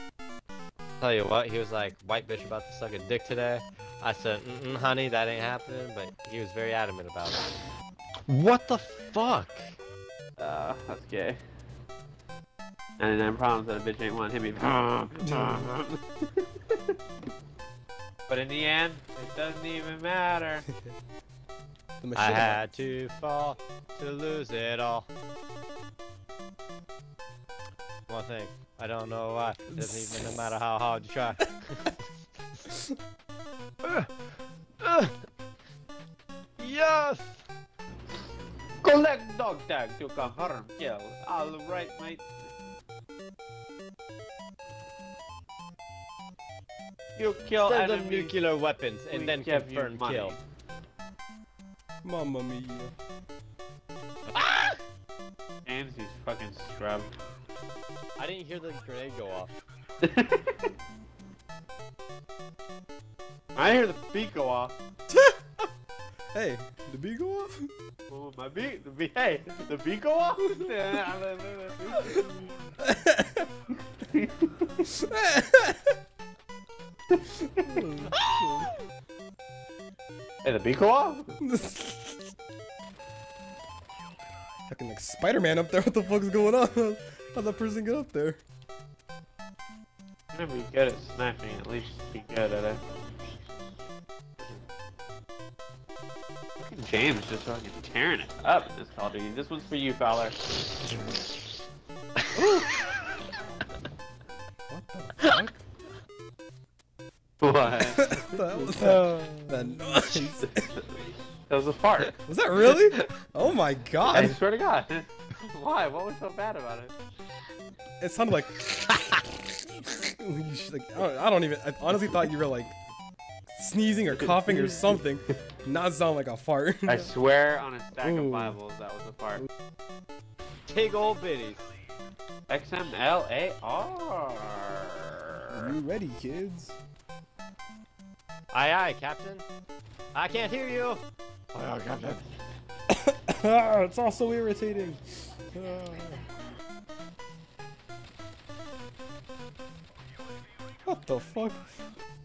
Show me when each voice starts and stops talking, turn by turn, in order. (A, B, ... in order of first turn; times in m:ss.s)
0:01.0-0:07.4 A
0:08.3-0:09.8 A
0:10.4-0:11.4 B
0:13.0-0:16.0 B
0:15.2-0:15.6 C
0:18.3-0:20.6 B
0:22.0-0:22.7 C
0:22.2-0:25.1 A
0:28.1-0:32.1 A
0:29.7-0:30.3 C
0:33.8-0:34.1 A
0:34.8-0:35.1 A
0:36.6-0:37.4 A
0:38.8-0:42.2 B
0:47.2-0:48.3 B
0:47.6-0:50.3 A
0:49.1-0:50.4 B
0:52.0-0:52.9 C
0:54.3-0:54.8 A
0:55.6-0:57.1 B
0:58.2-0:59.5 A
1:00.0-1:00.6 B
1:03.6-1:04.7 B
1:05.1-1:05.7 C
1:06.3-1:07.7 C
1:08.1-1:12.7 B
1:12.8-1:13.5 C
1:14.1-1:14.7 B
1:14.8-1:15.8 C
1:17.1-1:17.8 B
1:17.6-1:18.7 C
1:20.4-1:21.3 B
1:21.4-1:22.2 C
1:24.7-1:28.4 C
1:30.3-1:32.8 B
1:36.6-1:40.5 B
1:42.4-1:42.6 B
1:44.7-1:45.6 C
1:47.4-1:48.9 B
1:47.9-1:50.6 C
1:49.2-1:49.8 A
1:50.0-1:50.8 B
1:51.5-1:53.0 B
1:52.2-1:54.4 C
1:54.0-1:56.9 B
1:58.0-2:02.8 C
2:03.5-2:07.1 C
2:04.2-2:05.0 B
2:06.8-2:09.4 B
2:08.0-2:08.6 C
2:10.7-2:11.6 A
2:12.5-2:15.0 B
2:15.5-2:16.8 C
2:18.5-2:19.4 A
2:20.1-2:21.0 A
2:21.6-2:22.2 A
2:22.9-2:26.2 C
2:30.8-2:31.9 C